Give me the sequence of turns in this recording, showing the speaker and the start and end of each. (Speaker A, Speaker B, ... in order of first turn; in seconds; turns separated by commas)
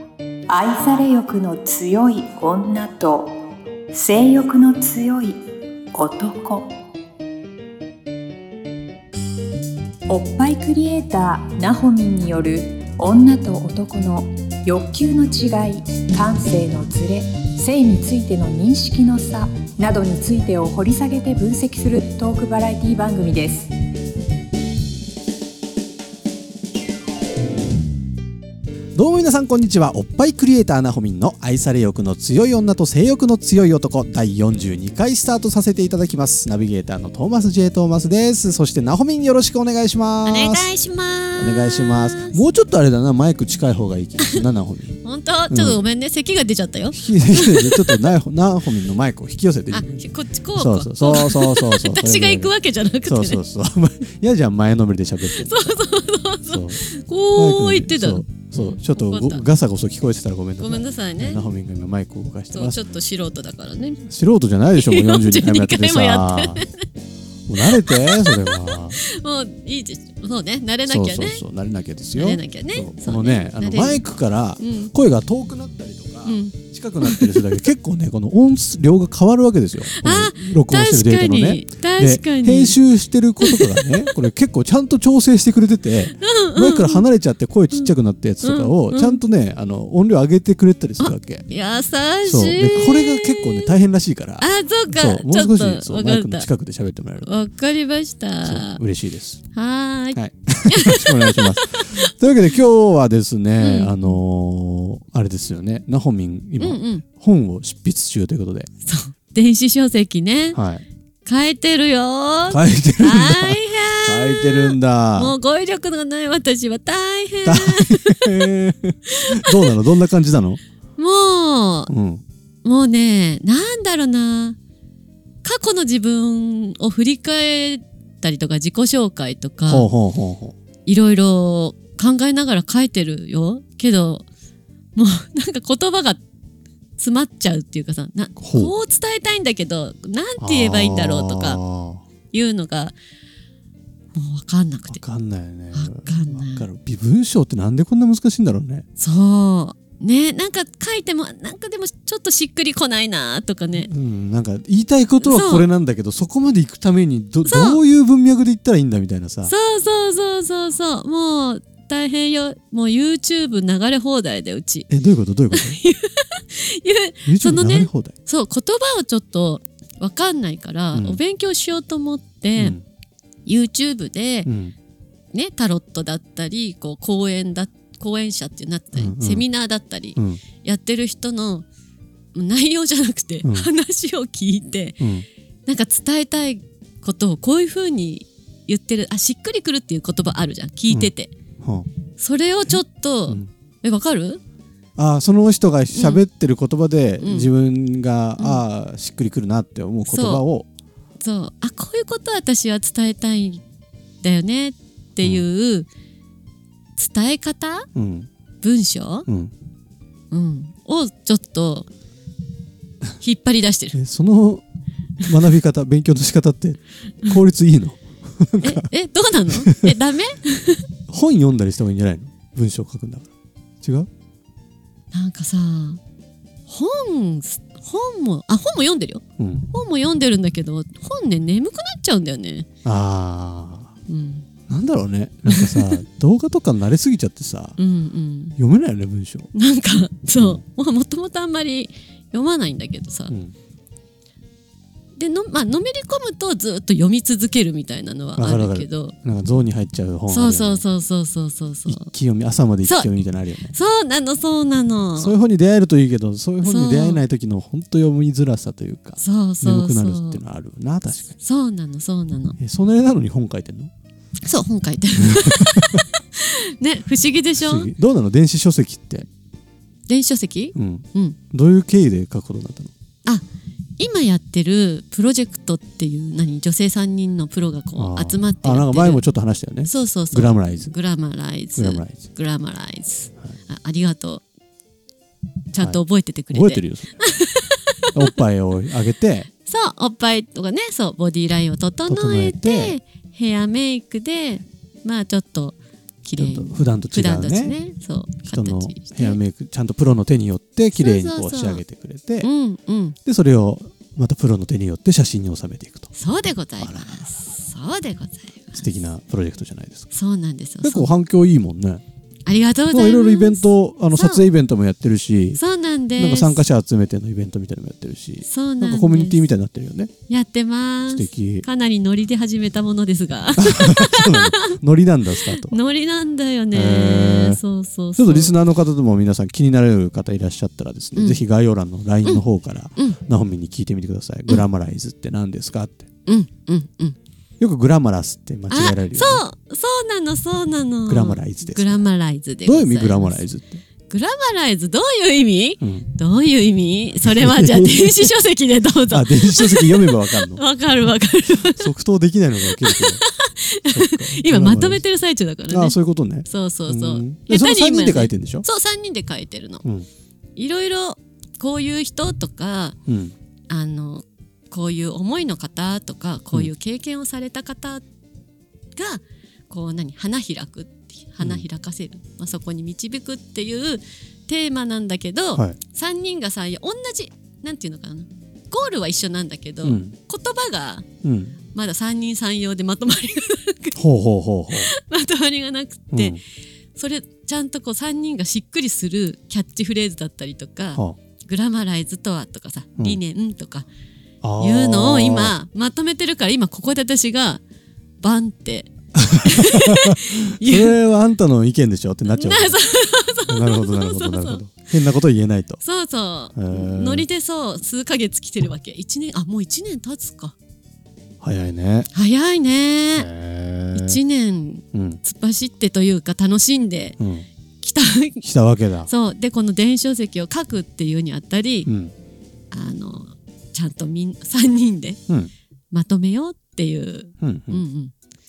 Speaker A: 0.5-3.3, Speaker A: 3.9-5.4, Speaker A: 5.9-6.7, Speaker A: 10.1-23.7, Speaker B: 28.9-40.7, Speaker C: 40.2-42.4, Speaker B: 41.4-45.0, Speaker C: 45.0-48.1, Speaker B: 45.5-45.8, Speaker B: 46.9-50.0, Speaker C: 49.7-53.4, Speaker B: 50.5-55.8, Speaker C: 55.2-59.4, Speaker B: 56.4-56.8, Speaker B: 57.3-62.8, Speaker C: 60.6-61.4, Speaker C: 62.5-64.0, Speaker B: 64.0-66.7, Speaker C: 64.7-66.8, Speaker B: 67.5-69.0, Speaker C: 67.6-71.4, Speaker B: 70.8-91.5, Speaker C: 72.1-74.0, Speaker C: 74.6-74.9, Speaker C: 76.2-77.6, Speaker C: 79.8-82.8, Speaker C: 83.4-84.1, Speaker C: 86.1-87.0, Speaker C: 87.7-89.2, Speaker C: 91.0-93.7, Speaker B: 92.2-97.3, Speaker C: 94.4-96.5, Speaker C: 97.2-98.8, Speaker B: 98.4-99.4, Speaker C: 99.5-102.1, Speaker B: 100.1-108.7, Speaker C: 103.6-104.2, Speaker C: 106.6-107.0, Speaker C: 108.8-110.6, Speaker B: 110.5-110.8, Speaker C: 111.2-118.5, Speaker B: 112.5-115.3, Speaker B: 117.4-120.6, Speaker C: 119.1-119.8, Speaker C: 121.0-121.9, Speaker B: 121.9-122.2, Speaker C: 122.6-124.6, Speaker C: 125.4-129.9, Speaker B: 129.7-130.5, Speaker C: 130.8-134.3, Speaker C: 134.9-136.2, Speaker C: 137.0-141.6, Speaker B: 138.4-138.7, Speaker B: 140.4-142.0, Speaker C: 142.3-142.9, Speaker C: 144.1-145.0, Speaker B: 144.9-148.8, Speaker C: 145.7-146.7, Speaker C: 149.0-153.9, Speaker B: 153.8-159.5, Speaker C: 155.2-155.7, Speaker C: 157.4-157.8, Speaker C: 159.4-164.9, Speaker B: 164.9-165.8, Speaker C: 165.5-172.8, Speaker B: 167.2-168.1, Speaker B: 170.9-171.2, Speaker B: 172.6-172.8, Speaker C: 173.4-174.5, Speaker B: 174.4-174.7, Speaker C: 175.3-181.7, Speaker B: 178.9-179.4, Speaker B: 180.2-180.4, Speaker C: 182.3-185.0, Speaker B: 183.4-183.7, Speaker B: 185.0-185.2, Speaker C: 185.7-191.3, Speaker B: 190.9-191.9, Speaker C: 192.2-194.4, Speaker B: 192.6-193.5, Speaker B: 195.0-200.7, Speaker C: 195.9-196.2, Speaker C: 197.2-197.5, Speaker C: 198.4-198.6, Speaker C: 200.1-200.4, Speaker C: 201.2-203.6, Speaker C: 204.2-205.9, Speaker C: 206.9-207.9, Speaker B: 207.9-208.3, Speaker C: 208.6-209.3, Speaker B: 209.3-209.5, Speaker C: 210.3-211.9, Speaker C: 213.2-214.0, Speaker B: 213.9-214.6, Speaker B: 215.2-218.8, Speaker C: 218.6-220.9, Speaker B: 219.5-219.9, Speaker B: 221.1-223.3, Speaker B: 223.8-224.1, Speaker C: 225.1-226.0, Speaker C: 226.7-232.7, Speaker B: 229.4-229.7, Speaker B: 232.8-233.9, Speaker C: 234.1-234.5, Speaker B: 234.7-237.8, Speaker C: 235.5-236.0, Speaker C: 237.8-238.6, Speaker B: 238.6-239.5, Speaker C: 239.5-243.3, Speaker B: 243.3-243.5, Speaker C: 245.2-249.1, Speaker B: 248.3-250.8, Speaker C: 250.3-252.1, Speaker B: 251.9-253.7, Speaker C: 252.8-253.1, Speaker C: 253.7-255.3, Speaker B: 255.1-261.4, Speaker C: 256.6-257.2, Speaker C: 259.2-260.4, Speaker C: 261.2-262.6, Speaker B: 262.6-263.9, Speaker C: 264.4-267.9, Speaker B: 265.2-266.0, Speaker B: 267.6-269.3, Speaker C: 270.1-271.4, Speaker B: 270.7-272.9, Speaker C: 274.0-279.2, Speaker B: 277.9-280.9, Speaker C: 279.8-284.4, Speaker B: 281.8-282.2, Speaker C: 285.7-288.3, Speaker B: 285.8-287.1, Speaker B: 288.1-289.5, Speaker C: 289.6-299.4, Speaker B: 292.1-293.0, Speaker B: 296.4-297.8, Speaker B: 298.4-302.5, Speaker C: 300.9-301.8, Speaker C: 302.4-303.2, Speaker B: 303.2-306.1, Speaker C: 306.1-308.8, Speaker B: 306.8-307.3, Speaker B: 308.7-310.1, Speaker C: 310.1-311.1, Speaker B: 310.8-312.0, Speaker C: 312.4-314.4, Speaker B: 312.9-315.6, Speaker C: 315.5-316.6, Speaker B: 316.2-320.1, Speaker C: 318.4-319.4, Speaker C: 320.3-324.8, Speaker B: 321.1-321.6, Speaker B: 323.6-325.8, Speaker C: 325.4-328.5, Speaker B: 326.7-327.6, Speaker B: 328.2-336.1, Speaker C: 331.1-331.4, Speaker C: 336.2-337.2, Speaker B: 337.6-339.4, Speaker C: 338.7-343.4, Speaker B: 341.1-342.0, Speaker B: 342.6-343.8, Speaker C: 344.1-351.9, Speaker B: 345.8-346.1, Speaker B: 347.2-348.3, Speaker B: 349.1-350.6, Speaker B: 351.6-353.2, Speaker C: 352.6-359.8, Speaker B: 353.9-355.0, Speaker B: 355.7-358.6, Speaker C: 360.6-362.9, Speaker B: 363.1-363.3, Speaker C: 363.7-368.0, Speaker C: 368.9-381.1, Speaker B: 371.4-371.6, Speaker B: 379.8-380.1, Speaker B: 381.2-381.6, Speaker C: 381.7-384.0, Speaker B: 383.9-384.9, Speaker C: 384.7-386.4, Speaker B: 386.1-386.4, Speaker C: 386.9-393.9, Speaker B: 394.4-395.6, Speaker C: 394.6-397.6, Speaker C: 398.2-400.9, Speaker B: 399.1-402.8, Speaker C: 402.3-404.6, Speaker B: 403.5-405.8, Speaker C: 405.8-410.5, Speaker B: 406.5-407.3, Speaker B: 411.4-412.1, Speaker C: 412.1-413.3, Speaker B: 413.1-414.2, Speaker C: 413.9-417.2, Speaker B: 414.9-415.2, Speaker B: 417.2-417.5, Speaker C: 417.8-418.4, Speaker B: 418.4-419.1, Speaker C: 419.1-421.9, Speaker B: 421.9-422.1, Speaker C: 422.7-425.2, Speaker C: 425.9-428.1, Speaker B: 427.4-427.8